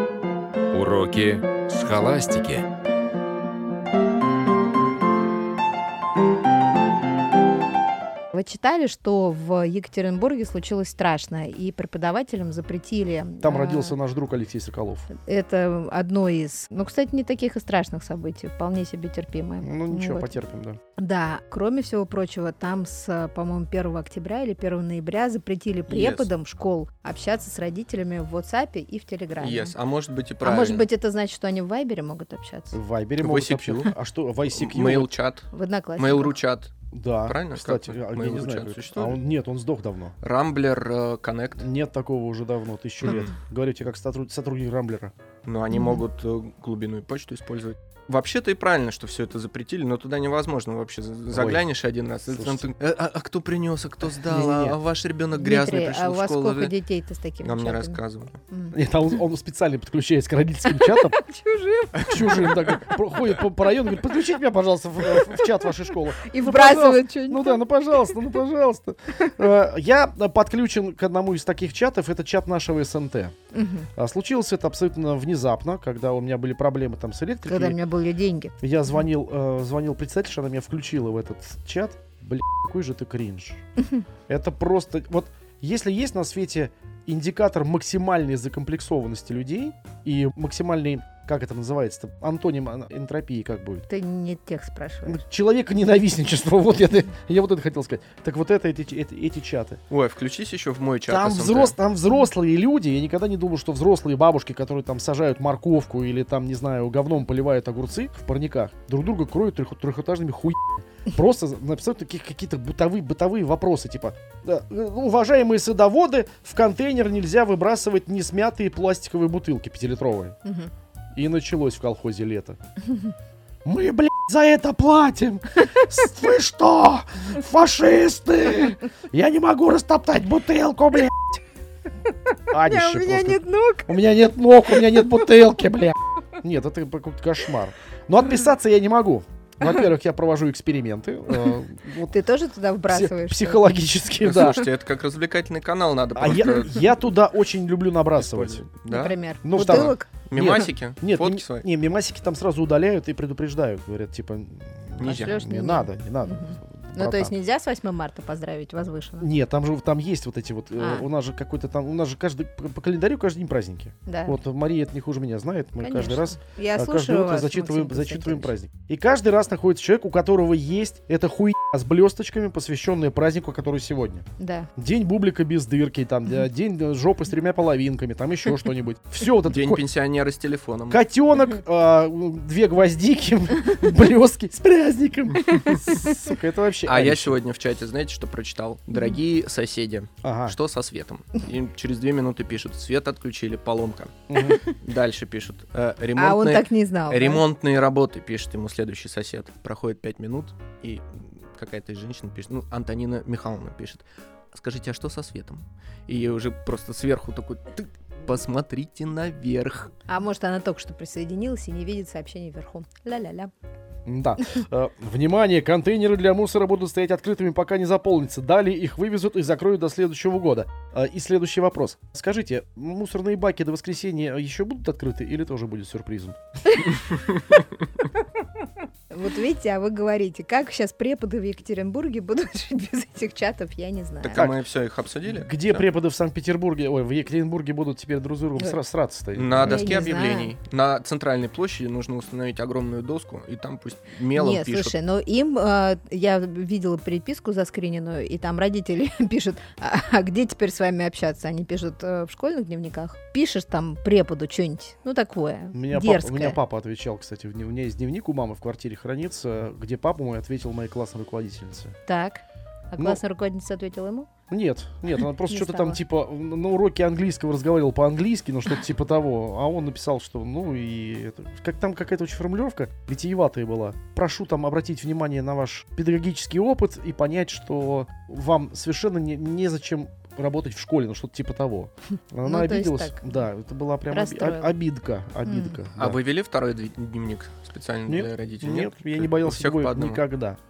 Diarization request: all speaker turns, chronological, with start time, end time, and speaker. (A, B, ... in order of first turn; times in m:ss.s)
0:00.7-0:02.7 A
0:08.3-0:14.0 B
0:13.4-0:15.1 C
0:15.1-0:20.3 B
0:19.6-0:20.8 C
0:21.0-0:29.7 B
0:25.9-0:26.3 D
0:29.4-0:30.9 D
0:30.4-0:32.8 B
0:32.7-0:35.1 C
0:33.2-0:33.9 D
0:34.5-0:36.7 D
0:35.5-0:36.4 B
0:36.9-0:40.1 C
0:37.2-0:39.2 D
0:40.2-0:41.6 D
0:41.6-0:45.1 C
0:43.0-0:43.3 D
0:45.4-0:56.7 D
0:45.7-0:46.0 B
0:51.3-0:51.6 C
0:52.3-0:52.7 C
0:54.2-0:54.8 C
0:55.4-0:58.0 B
0:57.4-0:58.4 D
0:58.7-1:01.2 C
1:00.7-1:02.7 B
1:02.0-1:13.4 C
1:06.2-1:07.6 B
1:13.5-1:13.9 B
1:14.0-1:17.8 C
1:17.4-1:18.5 B
1:18.6-1:23.6 C
1:24.3-1:33.8 C
1:33.9-1:35.2 B
1:35.0-1:39.8 C
1:39.9-1:41.7 D
1:41.1-2:00.4 C
2:00.4-2:00.7 B
2:01.1-2:02.6 C
2:03.6-2:11.4 C
2:12.5-2:13.9 B
2:12.5-2:22.1 C
2:22.1-2:23.7 B
2:22.9-2:24.7 C
2:24.2-2:27.0 D
2:26.1-2:28.6 C
2:28.2-2:31.6 D
2:28.9-2:30.1 B
2:29.4-2:37.3 C
2:35.0-2:35.4 D
2:35.0-2:39.3 B
2:39.2-2:59.8 C
2:40.8-2:41.0 B
2:44.0-2:44.4 B
2:45.8-2:48.5 B
2:54.4-2:54.7 B
2:59.4-3:01.0 D
3:00.9-3:07.4 C
3:06.8-3:29.9 D
3:10.2-3:10.6 C
3:14.3-3:14.6 C
3:16.2-3:17.4 B
3:30.1-3:33.5 B
3:34.0-3:46.4 C
3:49.1-3:54.5 B
3:54.2-3:55.8 D
3:55.3-4:00.0 C
3:59.3-4:04.9 D
3:59.6-4:00.5 B
4:04.3-4:16.6 B
4:15.7-4:21.9 C
4:22.1-4:24.3 B
4:24.5-4:46.2 C
4:25.5-4:26.0 B
4:42.4-4:43.3 B
4:44.1-4:44.7 B
4:45.4-4:45.8 B
4:46.0-4:50.2 D
4:48.1-4:50.6 C